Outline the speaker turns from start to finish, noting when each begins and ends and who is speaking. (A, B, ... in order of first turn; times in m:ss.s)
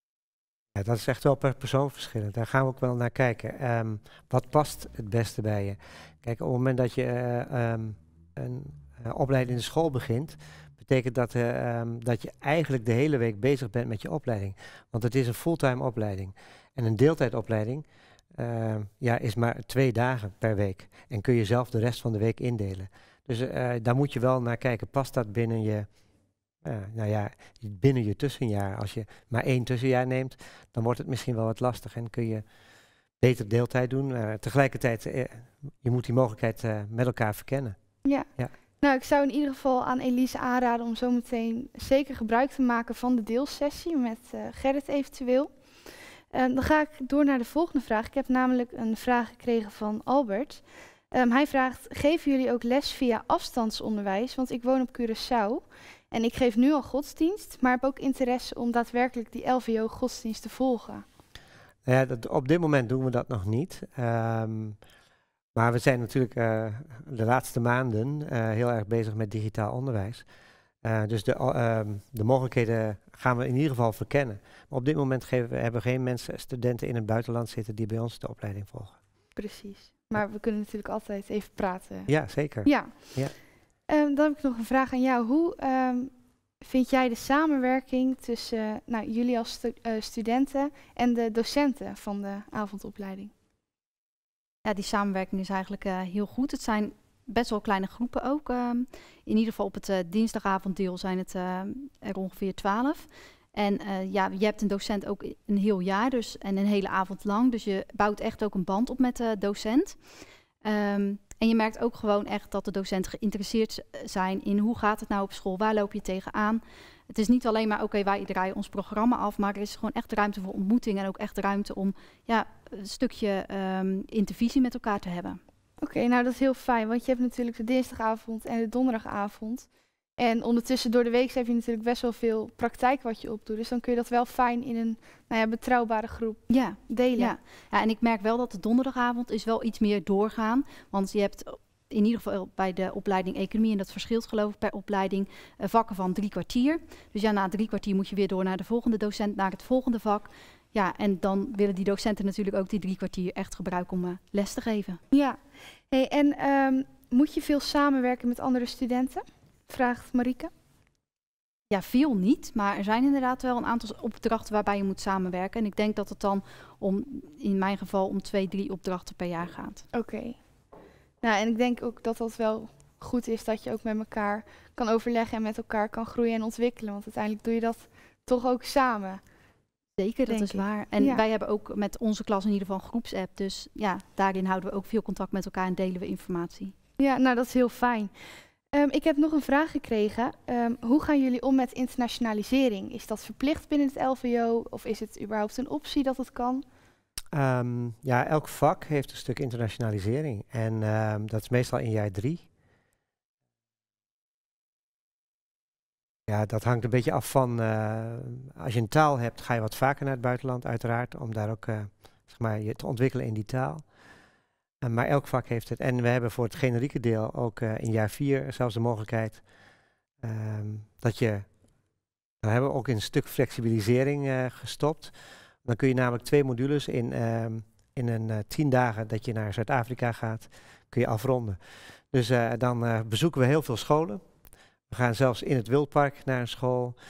0:00.7-0:25.9 A
0:26.6-0:32.4 A
0:33.2-0:37.8 A
0:38.8-0:45.5 B
0:46.3-0:50.6 B
0:51.1-1:01.0 B
1:01.8-1:04.8 A
1:05.5-1:10.2 A
1:10.8-1:19.0 A
1:19.4-1:22.1 B
1:22.1-1:23.3 A
1:22.6-1:22.9 B
1:23.9-1:26.1 B
1:26.6-1:33.3 B
1:34.6-1:50.0 C
1:50.6-2:05.4 C
2:05.8-2:17.3 B
2:16.5-2:35.0 C
2:35.1-2:35.4 B
2:35.9-2:40.5 B
2:41.7-2:49.8 C
2:49.9-2:50.4 B
2:51.2-2:59.2 B
3:00.0-3:06.7 C
3:00.3-3:01.2 B
3:07.0-3:08.1 B
3:08.7-3:16.6 B
3:17.3-3:22.4 A
3:26.3-3:33.8 A
3:34.8-3:39.4 A
3:40.2-3:41.5 A
3:42.4-3:45.1 A
3:45.6-3:51.6 A
3:52.1-3:54.2 A
3:54.9-3:57.0 A